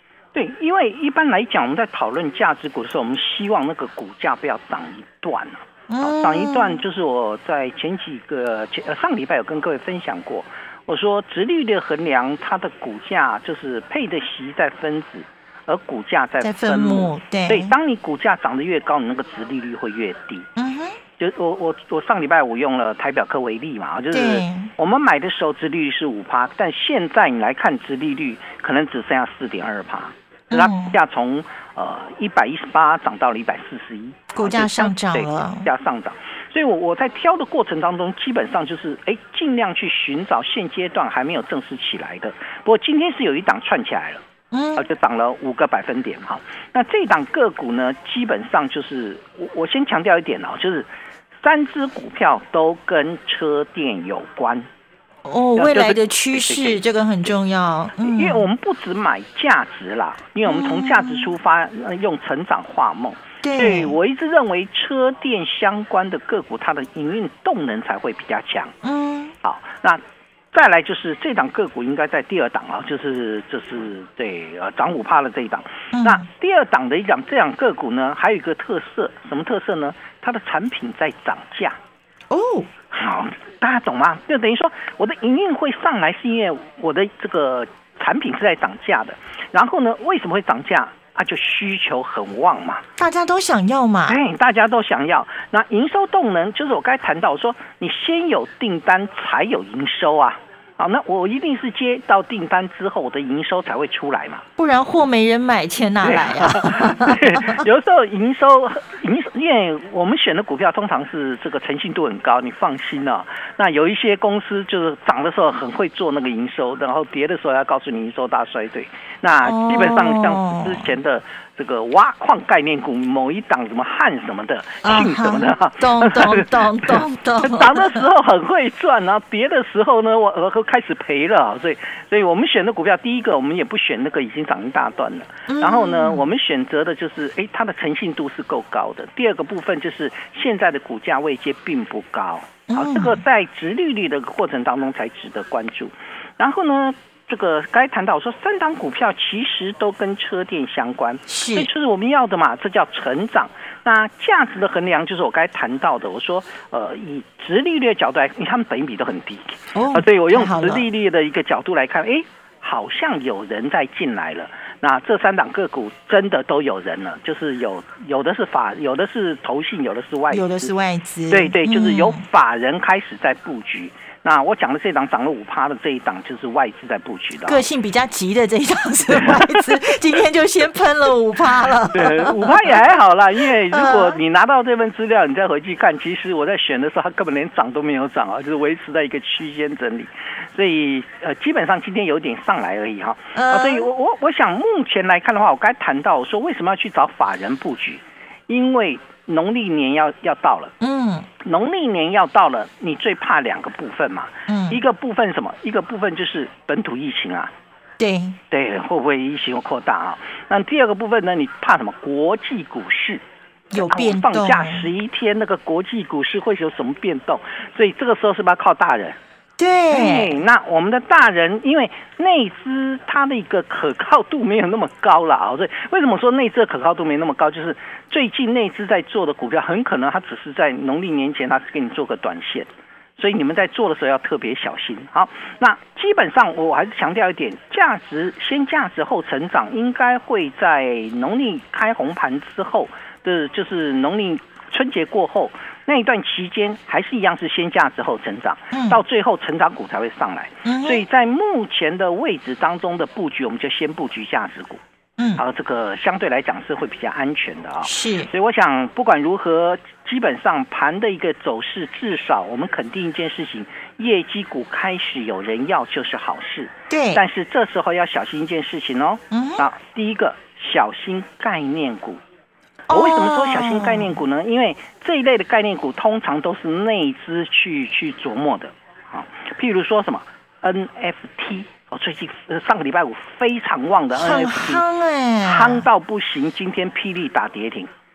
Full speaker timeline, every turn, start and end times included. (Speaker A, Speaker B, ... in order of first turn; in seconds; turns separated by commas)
Speaker A: 0.3-20.5, Speaker B: 5.9-6.8, Speaker B: 16.4-17.8, Speaker B: 20.6-21.0, Speaker A: 21.2-44.2, Speaker B: 24.1-24.7, Speaker B: 30.5-31.0, Speaker B: 34.3-35.7, Speaker B: 44.5-44.9, Speaker A: 44.8-50.9, Speaker A: 51.4-54.7, Speaker B: 55.2-58.5, Speaker A: 55.6-56.8, Speaker A: 58.0-68.8, Speaker B: 60.5-61.3, Speaker B: 63.4-64.0, Speaker B: 68.8-69.3, Speaker A: 69.4-70.0, Speaker A: 70.5-81.8, Speaker B: 75.9-76.3, Speaker B: 82.3-82.7, Speaker A: 82.9-92.8, Speaker B: 93.0-94.2, Speaker A: 94.1-104.4, Speaker B: 104.6-107.6, Speaker A: 106.1-170.7, Speaker B: 119.4-120.9, Speaker B: 124.8-128.1, Speaker B: 135.5-136.2, Speaker B: 142.7-143.2, Speaker B: 151.3-151.7, Speaker B: 159.7-160.8, Speaker B: 170.3-172.2, Speaker A: 171.3-177.6, Speaker B: 177.5-182.8, Speaker A: 179.1-179.6, Speaker A: 181.9-200.7, Speaker B: 183.7-184.2, Speaker B: 193.3-193.9, Speaker B: 200.8-201.3, Speaker A: 201.4-207.5, Speaker B: 204.5-204.8, Speaker B: 208.0-208.4, Speaker A: 208.5-213.2, Speaker B: 213.7-214.9, Speaker A: 213.8-219.2, Speaker B: 219.6-220.4, Speaker A: 219.9-254.8, Speaker B: 248.7-249.0, Speaker B: 250.7-251.1, Speaker A: 255.4-272.2, Speaker B: 257.8-258.3, Speaker B: 266.9-267.2, Speaker B: 269.3-269.6, Speaker B: 272.9-274.2, Speaker A: 272.9-284.8, Speaker B: 284.1-285.8, Speaker A: 285.4-287.9